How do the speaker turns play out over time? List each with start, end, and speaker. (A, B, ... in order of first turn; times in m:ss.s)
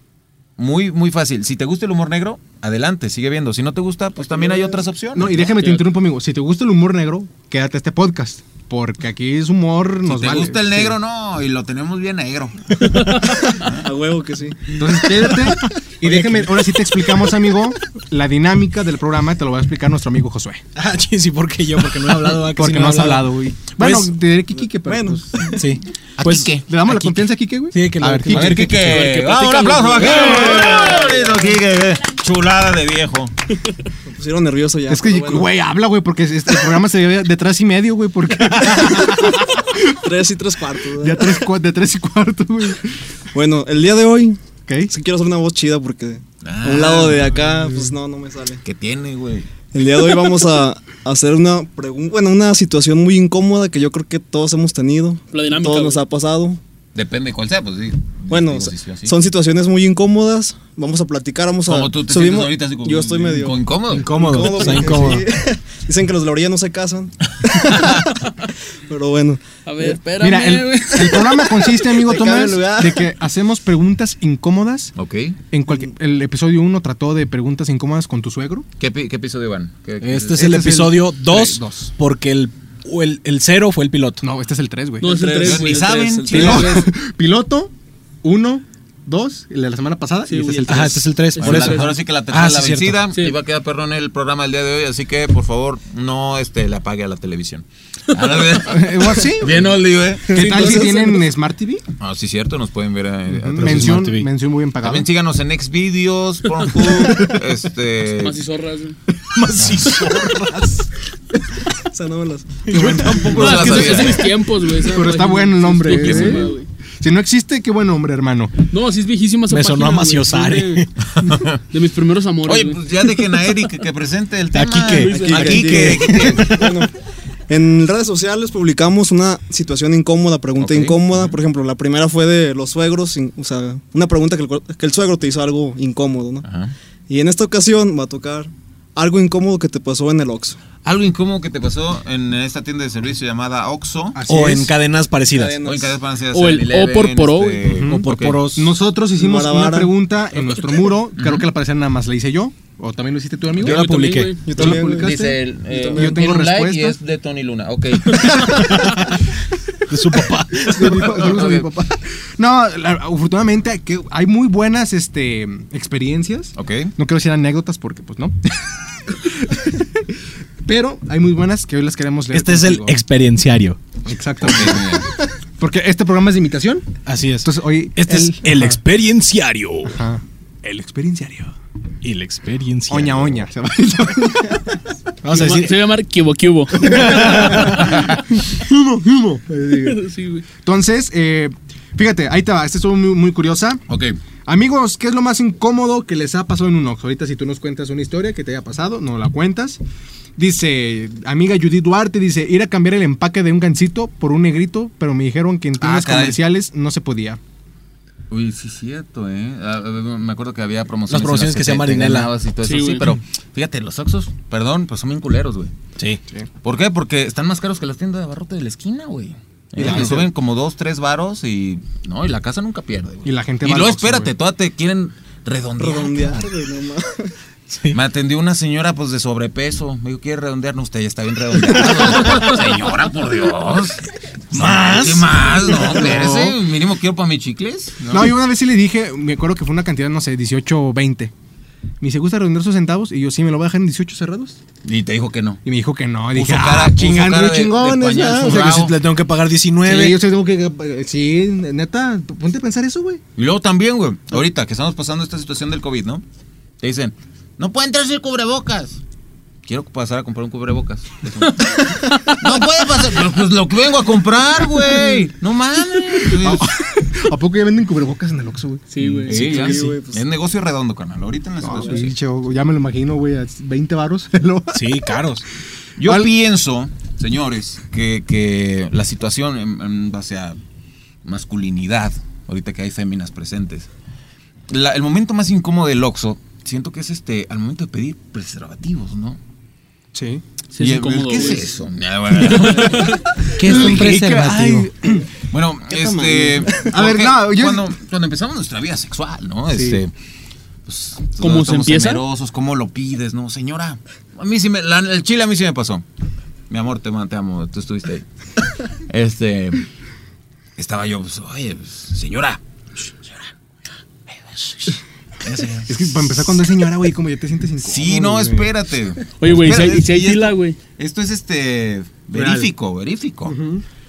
0:00.6-0:05.5 A
0:04.2-0:04.8 B
0:05.1-0:11.0 C
0:05.5-0:05.8 D
0:10.0-0:12.9 A
0:12.8-0:13.5 D
0:13.6-0:14.8 B
0:14.8-0:20.6 C
0:16.0-0:16.9 E
0:20.8-0:23.3 E
0:22.4-0:25.6 C
0:24.6-0:25.6 B
0:25.6-0:26.5 E
0:26.2-0:27.1 A
0:26.7-0:29.1 C
0:27.7-0:28.7 E
0:28.3-0:33.3 A
0:28.6-0:31.1 D
0:30.0-0:31.5 B
0:34.1-0:35.5 B
0:34.9-0:39.9 C
0:39.9-0:41.4 B
0:41.0-0:42.8 C
0:43.3-0:48.6 B
0:44.7-0:44.9 C
0:46.4-0:47.4 A
0:47.3-0:47.9 C
0:48.6-0:49.5 A
0:49.7-0:56.6 B
0:55.3-0:56.0 D
0:57.0-0:59.2 A
0:58.3-1:08.2 B
1:01.7-1:04.6 A
1:03.9-1:05.3 E
1:08.9-1:10.0 B
1:09.6-1:11.9 D
1:10.1-1:14.9 C
1:11.9-1:13.1 B
1:15.0-1:15.4 A
1:15.5-1:18.7 C
1:18.8-1:20.7 A
1:20.0-1:24.2 E
1:20.4-1:21.9 C
1:24.2-1:25.1 C
1:25.0-1:26.9 D
1:25.0-1:25.7 B
1:25.3-1:26.8 A
1:26.3-1:27.7 C
1:28.2-1:31.1 C
1:30.3-1:32.0 D
1:30.7-1:33.0 E
1:31.4-1:40.7 A
1:38.5-1:39.7 C
1:40.3-1:41.8 C
1:40.3-1:41.3 D
1:42.0-1:44.1 A
1:43.3-1:45.1 C
1:43.6-1:44.3 E
1:44.8-1:48.4 A
1:46.6-1:47.3 D
1:48.2-1:49.0 D
1:49.4-1:50.8 E
1:49.4-1:50.7 C
1:49.6-1:50.1 A
1:51.9-1:52.7 B
1:52.7-1:54.2 E
1:52.7-1:53.8 C
1:52.8-1:56.7 D
1:53.2-1:54.3 A
1:54.8-1:58.5 C
1:55.8-1:56.5 A
1:58.7-2:00.9 D
1:59.5-2:00.9 E
2:01.2-2:01.6 A
2:01.5-2:03.6 D
2:02.4-2:06.8 A
2:04.5-2:06.5 E
2:04.8-2:05.9 D
2:05.1-2:07.0 B
2:06.1-2:06.5 C
2:07.5-2:16.5 B
2:10.6-2:11.4 A
2:16.4-2:16.8 A
2:17.1-2:20.6 B
2:20.8-2:24.2 A
2:24.1-2:24.7 C
2:24.3-2:25.6 E
2:25.3-2:26.0 B
2:25.6-2:28.4 A
2:26.3-2:27.6 D
2:27.7-2:33.8 C
2:27.9-2:28.7 E
2:29.2-2:29.9 B
2:31.2-2:31.5 A
2:33.6-2:34.8 E
2:33.6-2:34.5 D
2:34.5-2:36.2 B
2:34.6-2:35.3 C
2:34.6-2:38.8 A
2:35.9-2:37.0 C
2:38.1-2:38.8 C
2:38.4-2:39.2 E
2:39.9-2:41.3 E
2:40.7-2:50.1 C
2:40.8-2:41.7 A
2:46.6-2:46.9 A
2:50.6-2:53.0 C
2:52.3-2:53.8 E
2:54.0-2:55.1 C
2:54.4-2:55.1 A
2:55.6-2:56.8 C
2:57.1-3:00.0 E
2:57.4-2:58.8 C
2:59.9-3:01.5 C
3:02.0-3:03.5 E
3:02.9-3:04.8 C
3:05.2-3:05.8 E
3:05.3-3:07.6 D
3:06.7-3:10.1 C
3:06.8-3:08.0 E
3:09.7-3:10.5 D
3:10.6-3:13.8 C
3:13.9-3:14.2 A
3:14.5-3:19.8 C
3:20.4-3:27.4 C
3:25.8-3:26.4 A
3:28.3-3:35.7 A
3:31.1-3:32.3 E
3:32.6-3:33.1 D
3:36.6-3:46.4 A
3:39.8-3:40.3 C
3:39.8-3:40.1 E
3:43.2-3:44.3 C
3:45.8-3:47.3 B
3:47.7-3:48.0 E
3:47.9-3:58.1 A
3:54.5-3:56.6 E
3:58.1-4:01.3 C
4:02.0-4:04.6 C
4:04.8-4:05.6 A
4:05.6-4:08.8 C
4:06.3-4:08.9 A
4:08.4-4:10.2 E
4:09.9-4:13.2 C
4:13.4-4:16.2 A
4:16.8-4:19.0 A
4:19.7-4:26.7 A
4:22.1-4:22.4 D
4:26.2-4:29.9 C
4:28.9-4:29.9 D
4:29.0-4:32.1 A
4:29.3-4:30.2 B
4:31.6-4:35.2 C
4:31.8-4:32.1 B
4:34.7-4:35.4 E
4:36.0-4:40.6 A
4:36.0-4:36.3 C
4:41.2-4:43.9 A
4:44.7-4:49.4 A
4:50.1-4:50.4 C
4:50.7-4:51.7 D
4:50.8-4:54.0 A
4:52.4-4:53.3 D
4:53.4-4:55.3 C
4:53.6-4:54.9 E
4:55.5-5:00.1 A
4:55.9-4:56.9 B
4:56.6-4:57.9 C
4:59.7-5:00.0 C
5:00.9-5:06.0 A
5:01.4-5:02.2 D
5:06.7-5:09.9 A
5:10.8-5:13.5 A
5:14.3-5:16.3 A
5:15.9-5:18.7 C
5:17.8-5:23.6 A
5:19.4-5:20.8 D
5:22.3-5:22.7 C
5:23.4-5:23.8 C